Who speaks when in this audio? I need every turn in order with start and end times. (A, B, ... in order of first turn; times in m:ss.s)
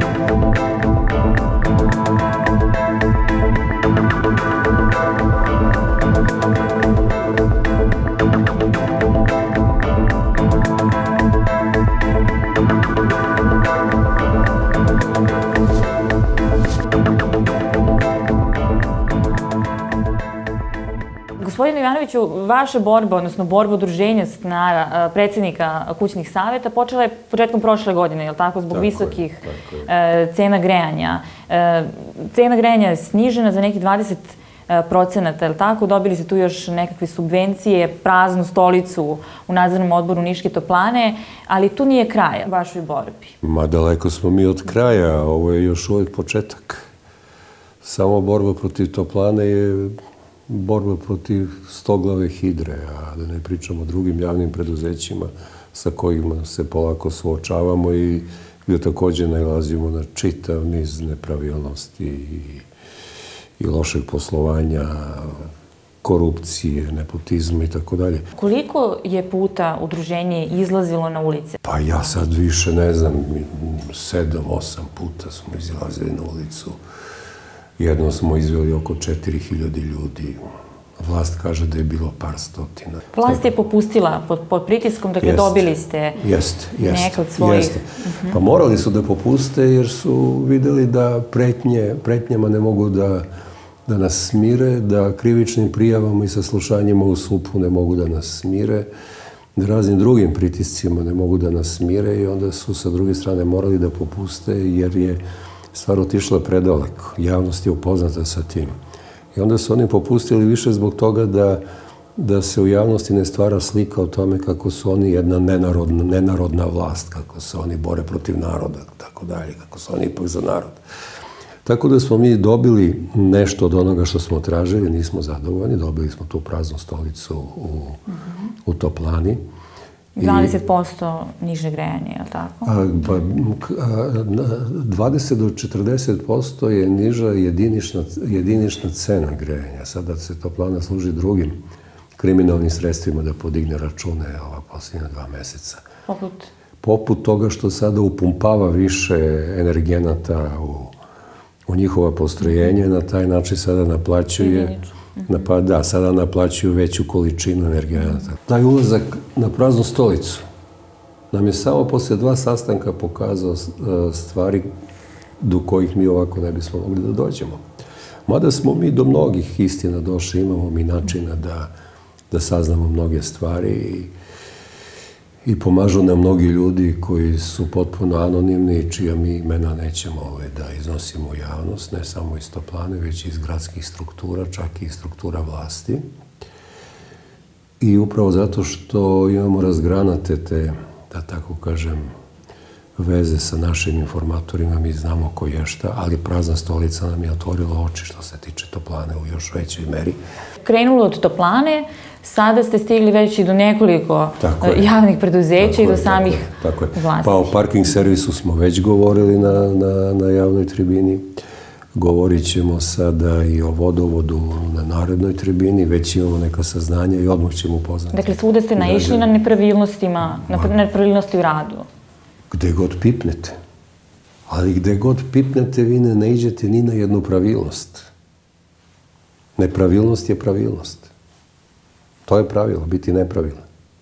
0:21.4-0:43.4 A
0:28.7-0:29.9 B
0:43.4-0:46.8 B
0:47.8-0:50.0 B
0:50.5-1:02.7 B
1:03.6-1:05.5 B
1:06.0-1:08.2 B
1:08.4-1:11.6 A
1:11.6-1:16.8 B
1:17.8-1:20.4 B
1:21.0-1:23.4 B
1:23.1-1:26.2 A
1:25.2-1:33.3 B
1:26.8-1:28.4 A
1:33.9-1:38.9 B
1:39.6-1:45.2 B
1:45.7-1:48.7 B
1:49.3-1:51.6 B
1:52.2-2:00.8 B
2:01.6-2:08.0 B
2:08.7-2:09.4 B
2:10.2-2:10.6 B
2:10.2-2:12.8 A
2:12.6-2:21.6 B
2:22.2-2:25.8 B
2:26.1-2:26.5 A
2:26.8-2:31.0 B
2:31.7-2:40.4 B
2:34.4-2:35.3 A
2:41.3-2:44.7 B
2:45.4-2:47.6 B
2:48.3-2:51.7 B
2:52.3-2:54.1 B
2:55.4-3:06.0 B
3:07.8-3:12.1 B
3:13.0-3:20.2 B
3:20.6-3:27.5 A
3:24.4-3:24.9 B
3:25.6-3:31.3 B
3:32.0-3:39.3 B
3:38.1-3:41.9 A
3:40.5-3:40.8 B
3:42.5-3:43.6 B
3:44.5-3:48.1 B
3:49.6-3:51.1 B
3:52.3-3:53.6 B